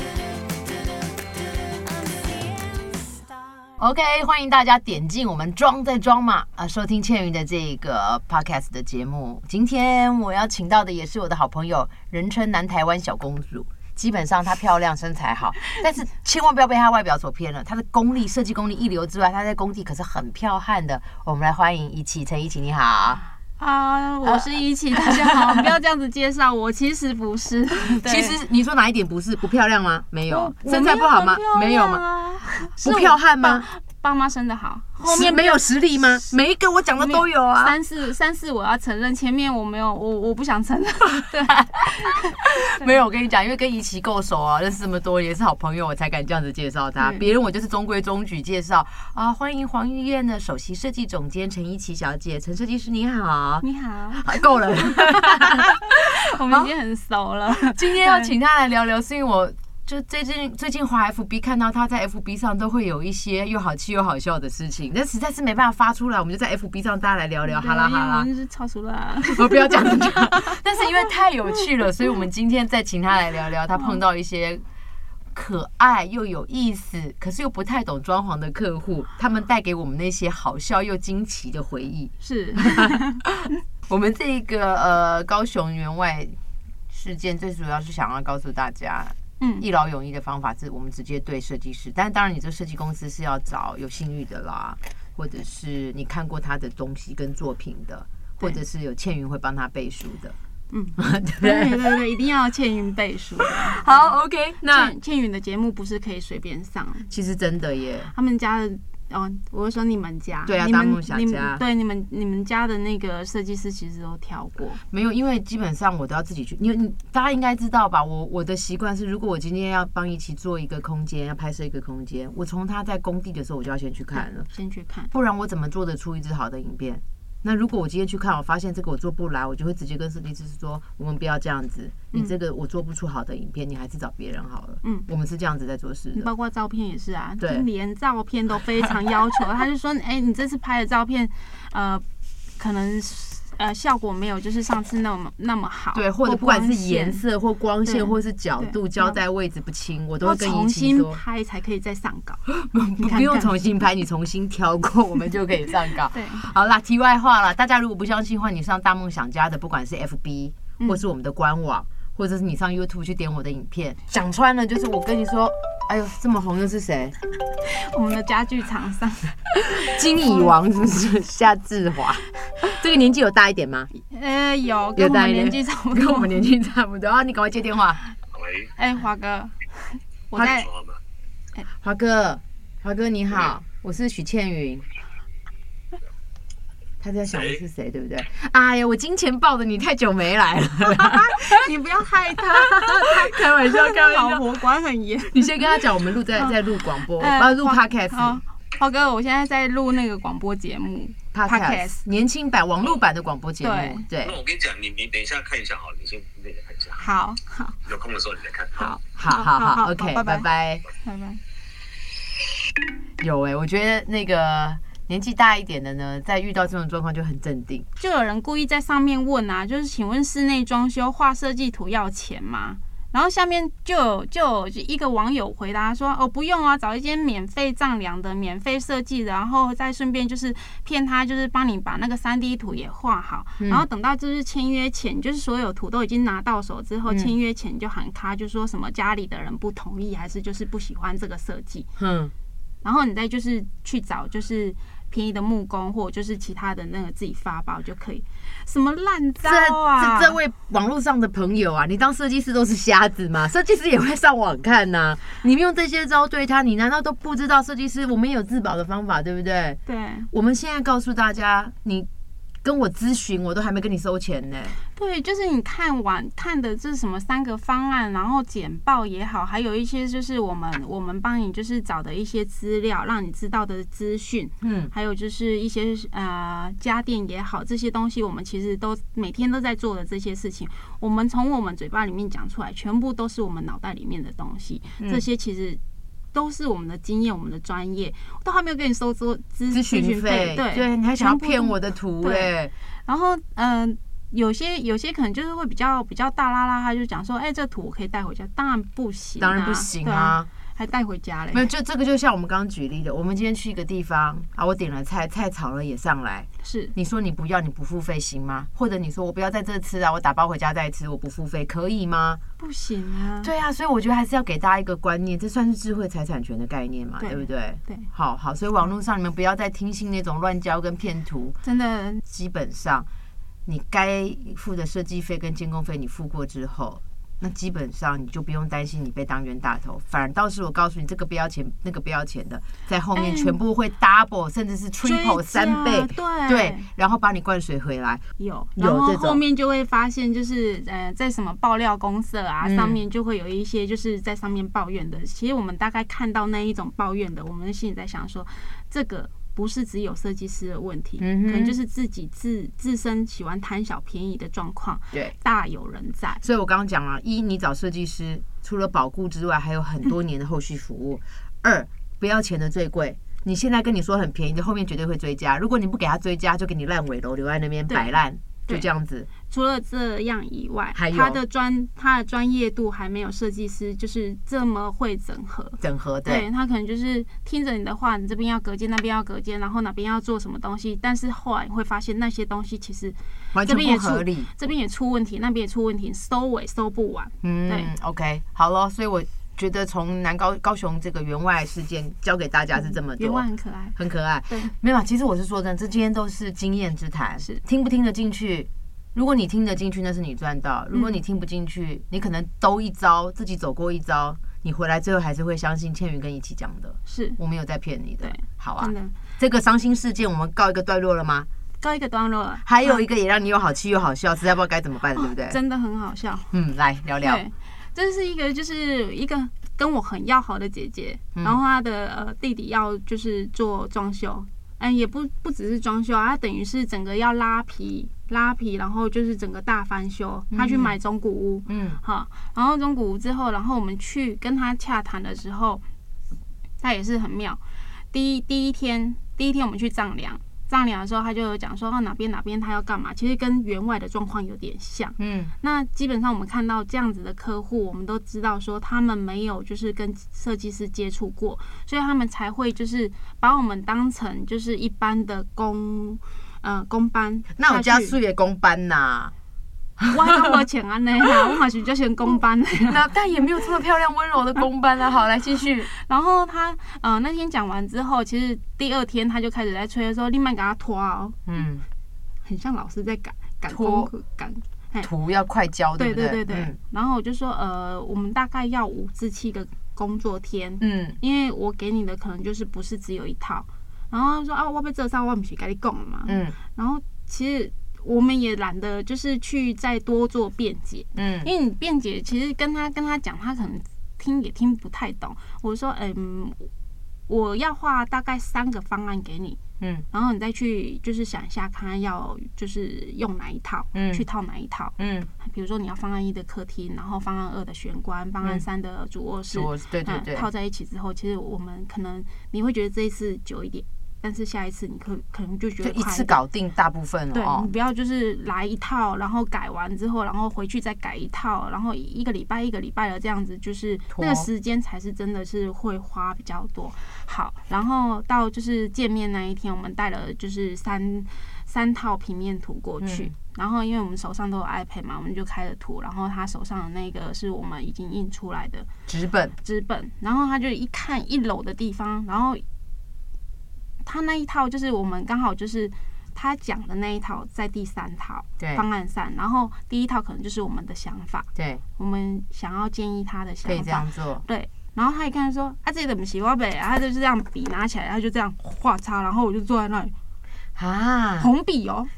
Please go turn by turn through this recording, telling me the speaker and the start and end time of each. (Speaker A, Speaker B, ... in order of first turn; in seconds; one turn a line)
Speaker A: 3.8-23.2
Speaker B: 23.6-28.4
Speaker A: 24.2-25.7
Speaker A: 28.0-32.0
Speaker B: 30.3-36.3
Speaker A: 32.6-33.7
Speaker A: 35.0-37.8
Speaker B: 37.0-42.9
Speaker A: 41.5-53.6
Speaker B: 47.0-47.2
Speaker B: 53.6-58.3
Speaker A: 54.1-55.9
Speaker A: 57.5-68.3
Speaker B: 67.5-71.0
Speaker A: 69.3-74.6
Speaker A: 75.3-82.9
Speaker B: 82.2-83.2
Speaker A: 83.9-86.4
Speaker A: 86.9-100.3
Speaker B: 89.4-89.7
Speaker B: 100.7-107.1
Speaker A: 101.0-101.9
Speaker A: 103.5-104.9
Speaker A: 107.1-108.1
Speaker B: 108.1-114.8
Speaker A: 110.4-111.6
Speaker A: 114.9-124.5
Speaker B: 124.1-125.1
Speaker A: 125.1-136.3
Speaker B: 136.1-142.0
Speaker A: 137.4-137.7
Speaker B: 142.6-147.2
Speaker A: 145.9-151.2
Speaker B: 147.8-149.2
Speaker B: 150.2-152.4
Speaker A: 152.5-167.1
Speaker B: 153.0-153.5
Speaker B: 156.1-156.4
Speaker B: 167.6-169.4
Speaker A: 169.7-173.9
Speaker B: 170.1-170.6
Speaker B: 173.9-176.4
Speaker A: 174.9-178.0
Speaker B: 178.8-180.7
Speaker A: 180.3-180.6
Speaker A: 181.8-184.8
Speaker A: 187.0-191.6
Speaker B: 190.8-195.5
Speaker A: 192.4-194.4
Speaker A: 195.3-198.4
Speaker B: 196.3-202.0
Speaker A: 201.3-204.4
Speaker B: 203.6-204.0
Speaker C: 204.2-207.0
Speaker B: 207.0-207.8
Speaker C: 207.9-208.9
Speaker B: 208.7-210.5
Speaker A: 209.2-210.8
Speaker B: 211.0-211.4
Speaker A: 213.2-217.8
Speaker B: 218.0-241.9
Speaker A: 233.6-233.8
Speaker A: 237.1-237.3
Speaker A: 242.0-242.3
Speaker B: 242.8-250.4
Speaker A: 249.4-259.8
Speaker B: 259.9-260.3
Speaker A: 260.3-262.1
Speaker A: 262.6-264.8
Speaker B: 264.9-285.8
Speaker A: 274.6-274.9
Speaker B: 286.3-292.5
Speaker A: 289.7-292.7
Speaker B: 293.1-301.7
Speaker A: 299.4-300.5
Speaker A: 301.5-312.4
Speaker B: 306.6-306.9
Speaker B: 312.6-313.5
Speaker A: 313.4-321.6
Speaker B: 317.2-318.1
Speaker B: 321.6-322.2
Speaker A: 322.2-323.1
Speaker A: 323.6-338.2
Speaker B: 333.1-333.6
Speaker B: 335.0-336.9
Speaker B: 338.4-356.4
Speaker A: 338.8-339.4
Speaker A: 342.6-343.0
Speaker A: 351.2-351.8
Speaker A: 356.4-369.3
Speaker B: 369.5-387.9
Speaker A: 370.9-371.4
Speaker A: 375.8-376.5
Speaker A: 383.5-384.5
Speaker A: 387.4-411.5
Speaker B: 392.8-393.9
Speaker B: 400.9-401.2
Speaker B: 407.1-407.4
Speaker B: 408.2-409.2
Speaker B: 411.8-413.0
Speaker A: 412.6-415.6
Speaker B: 415.1-416.5
Speaker A: 416.5-417.4
Speaker B: 417.2-435.8
Speaker A: 421.4-421.6
Speaker A: 430.5-430.9
Speaker A: 431.7-432.0
Speaker B: 436.8-437.6
Speaker B: 438.1-458.1
Speaker A: 445.2-445.5
Speaker A: 457.6-459.3
Speaker B: 460.1-463.1
Speaker A: 462.9-465.9
Speaker B: 465.9-471.4
Speaker A: 471.5-471.9
Speaker B: 472.4-475.1
Speaker A: 473.7-474.1
Speaker A: 475.0-476.8
Speaker B: 476.0-496.7
Speaker A: 480.8-481.2
Speaker A: 486.3-486.6
Speaker A: 491.1-491.5
Speaker B: 497.3-499.6
Speaker A: 499.8-500.0
Speaker B: 500.1-516.4
Speaker A: 503.9-504.2
Speaker A: 505.0-505.3
Speaker A: 509.5-510.5
Speaker A: 515.8-517.7
Speaker B: 517.3-538.9
Speaker A: 524.1-524.5
Speaker A: 533.0-533.3
Speaker A: 539.1-539.5
Speaker B: 539.6-542.6
Speaker B: 544.0-560.1
Speaker A: 548.6-548.8
Speaker A: 551.5-551.8
Speaker A: 553.6-554.4
Speaker A: 560.8-561.5
Speaker B: 561.4-562.1